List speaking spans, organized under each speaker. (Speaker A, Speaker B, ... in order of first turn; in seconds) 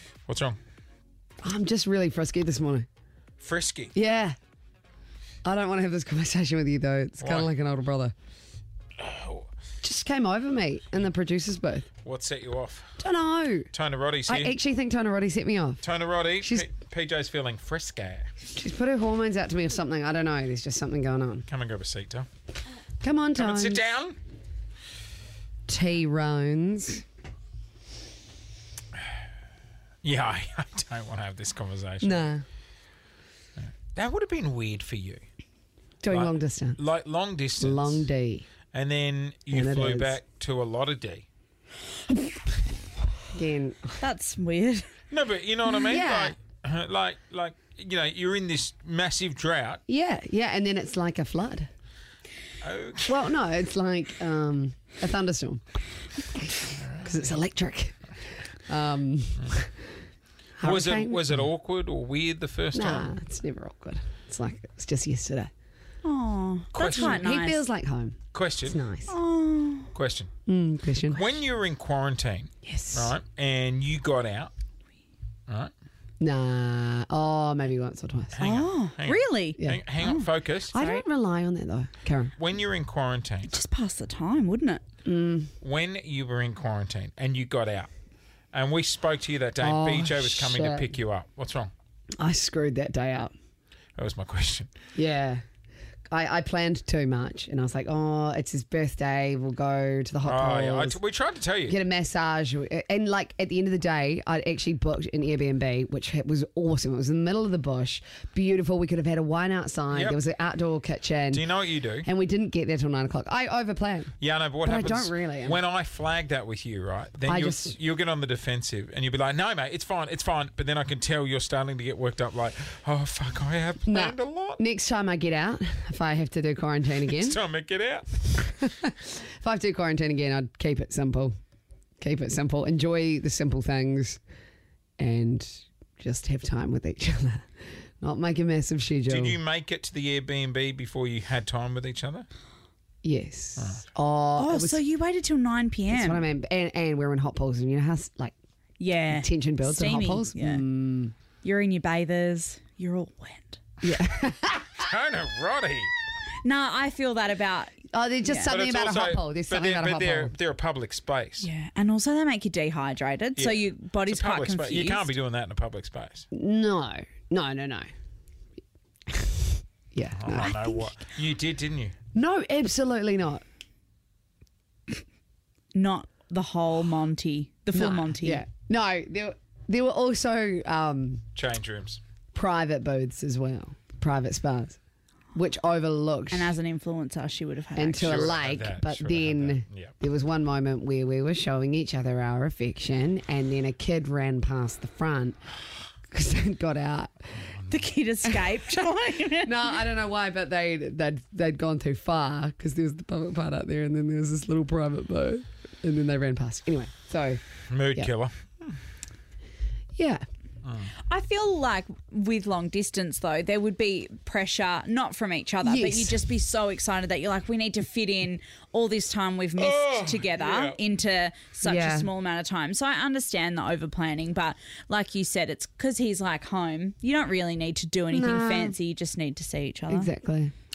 Speaker A: 0.3-0.6, 3.4-3.9, 7.2-7.5, 9.0-9.5, 12.0-12.9, 13.7-14.5, 15.8-18.3, 21.5-22.3, 23.3-24.2, 30.0-32.3, 33.6-35.2, 36.1-38.1, 38.7-41.2, 45.1-49.8, 52.6-53.2, 56.7-57.3, 60.6-63.1, 66.7-67.3, 68.3-68.8, 69.9-70.3, 71.1-74.5, 78.3-80.7, 82.4-83.6, 85.6-87.9, 88.5-91.7, 94.0-94.7, 100.2-101.8, 109.9-110.2, 111.3-112.1, 114.2-124.6, 127.1-128.6, 139.1-142.2, 143.6-143.8, 154.8-155.9, 158.5-161.5, 163.4-166.2, 170.1-171.9, 181.3-182.0, 188.0-189.9, 197.4-197.9, 207.7-208.7, 210.6-210.9, 219.6-220.8
Speaker B: 1.4-2.9, 3.9-4.4, 5.4-8.1, 9.8-11.9, 13.0-13.7, 14.2-15.8, 16.4-16.7, 18.5-21.4, 23.0-23.9, 25.7-27.0, 32.0-32.4, 36.0-36.8, 37.6-38.5, 39.5-40.2, 43.3-44.0, 45.8-46.4, 49.9-51.7, 53.1-55.6, 56.2-56.5, 57.0-58.0, 58.7-59.8, 60.6-61.5, 62.7-65.5, 66.8-69.1, 70.5-71.4, 72.6-73.1, 76.2-78.4, 79.6-79.8, 80.7-82.3, 85.0-85.5, 89.6-90.9, 92.2-93.3, 95.0-95.4, 96.1-101.0, 101.7-115.6, 117.2-117.8, 123.8-127.4, 128.6-131.3, 132.0-134.2, 135.0-137.5, 138.0-139.4, 143.0-144.8, 145.9-148.3, 149.1-151.1, 153.8-154.8, 157.9-160.3, 166.3-167.9, 169.1-170.8, 172.1-173.4, 177.7-181.2, 182.3-184.8, 185.3-186.5, 187.8-195.4, 196.1-197.2, 199.4-207.4, 209.9-210.2, 215.6-216.2, 221.6-222.1, 228.1-228.8, 229.9-230.5
Speaker C: 44.0-44.9, 66.0-67.6, 69.1-69.9, 78.4-81.0, 83.5-84.8, 144.3-146.2, 148.8-150.6, 151.4-153.6, 156.4-158.5, 161.4-165.1, 175.7-178.4, 186.3-188.2, 197.7-199.6, 211.1-230.1